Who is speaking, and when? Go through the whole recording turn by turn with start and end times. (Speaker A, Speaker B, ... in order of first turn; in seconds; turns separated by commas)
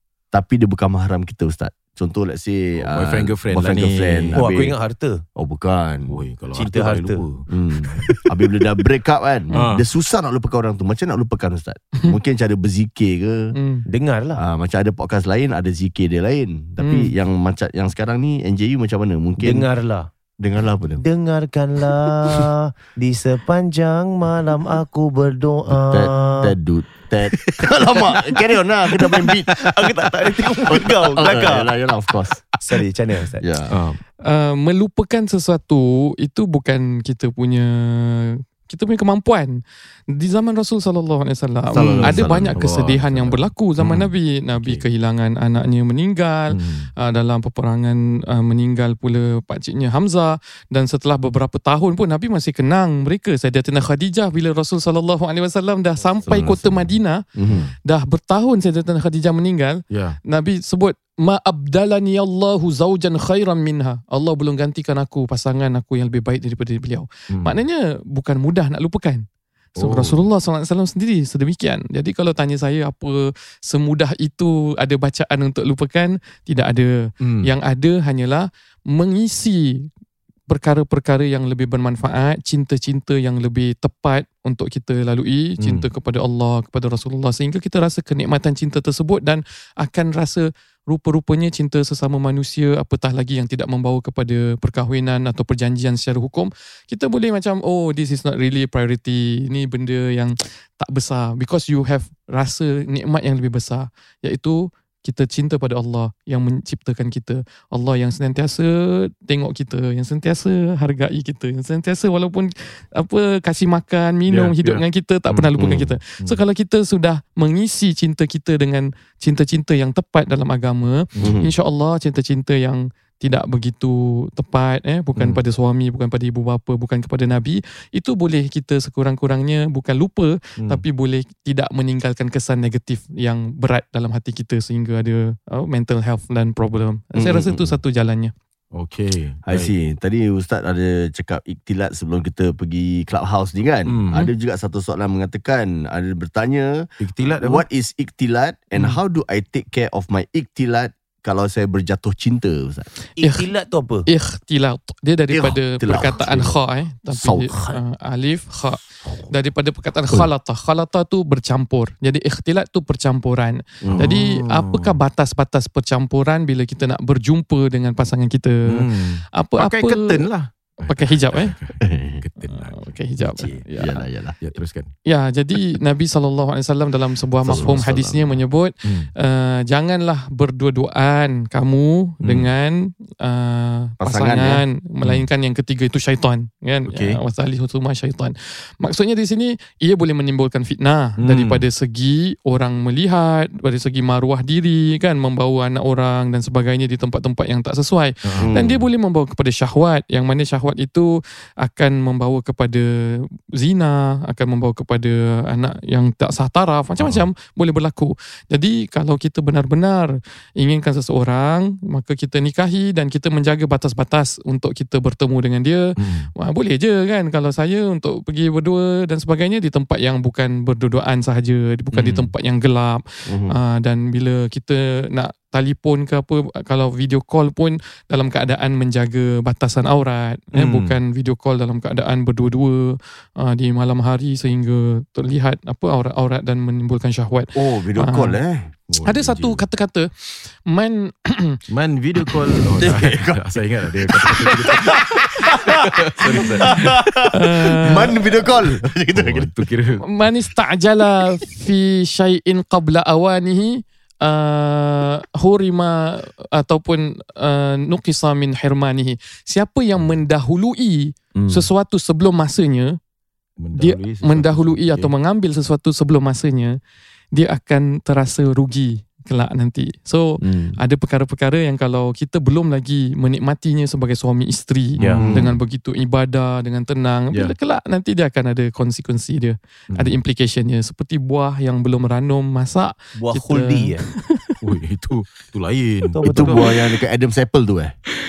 Speaker A: 0.3-4.8, Speaker B: 2.8-4.5, Speaker C: 4.3-5.2, Speaker A: 5.3-6.1, Speaker B: 6.1-8.2, Speaker C: 6.5-7.2, Speaker A: 7.5-13.4, Speaker B: 9.6-9.8, Speaker D: 13.5-13.8, Speaker C: 13.9-14.4, Speaker A: 14.4-19.7, Speaker D: 16.8-17.1, Speaker C: 19.4-20.1, Speaker A: 20.4-21.0, Speaker C: 21.0-26.5, Speaker A: 25.9-29.7, Speaker C: 29.1-31.7, Speaker A: 30.6-32.4, Speaker C: 32.6-33.5, Speaker A: 33.4-33.7, Speaker B: 33.7-34.0, Speaker D: 34.2-39.6, Speaker D: 40.1-57.2, Speaker A: 41.7-43.0, Speaker B: 42.0-44.8, Speaker B: 46.5-46.9, Speaker A: 56.3-57.7, Speaker B: 57.5-57.7, Speaker D: 57.8-69.2, Speaker B: 59.9-60.2, Speaker B: 69.8-70.2, Speaker D: 69.8-79.9, Speaker B: 77.2-77.5, Speaker D: 80.5-138.3, Speaker B: 85.6-85.9, Speaker B: 114.3-115.6, Speaker A: 115.6-115.9, Speaker A: 121.2-121.5, Speaker A: 137.1-137.7, Speaker B: 138.7-139.7, Speaker A: 139.5-146.8, Speaker B: 143.9-144.3, Speaker B: 147.0-147.6, Speaker A: 147.4-152.9, Speaker C: 153.2-154.1, Speaker D: 153.2-153.4, Speaker D: 154.1-170.2, Speaker A: 155.3-156.6, Speaker A: 157.1-157.8, Speaker A: 163.8-164.1, Speaker B: 163.9-165.0, Speaker B: 168.7-172.8, Speaker D: 170.8-171.5, Speaker A: 171.8-172.2, Speaker D: 172.4-174.0, Speaker A: 173.4-174.3, Speaker B: 174.4-174.9, Speaker D: 175.1-238.4, Speaker A: 177.4-178.4, Speaker B: 178.8-179.1, Speaker B: 182.2-182.5, Speaker A: 184.0-184.6, Speaker B: 186.9-187.2, Speaker B: 191.2-191.6, Speaker B: 198.2-198.6, Speaker A: 198.4-198.8, Speaker B: 207.0-207.2, Speaker B: 216.0-216.3, Speaker B: 221.9-222.3, Speaker A: 223.3-223.6, Speaker B: 230.5-230.9, Speaker A: 237.5-238.7, Speaker B: 238.9-239.6, Speaker D: 239.0-241.6, Speaker B: 241.7-247.3, Speaker A: 242.7-249.5, Speaker D: 247.3-248.5, Speaker B: 249.1-250.0, Speaker D: 250.1-262.9, Speaker C: 261.3-261.7, Speaker B: 263.6-265.1, Speaker D: 263.8-266.8, Speaker D: 267.3-284.5, Speaker C: 270.4-270.8, Speaker C: 275.0-275.2, Speaker B: 275.0-275.5, Speaker A: 275.2-275.5, Speaker C: 283.2-284.0, Speaker B: 284.6-286.6, Speaker C: 286.1-286.7, Speaker A: 286.2-287.9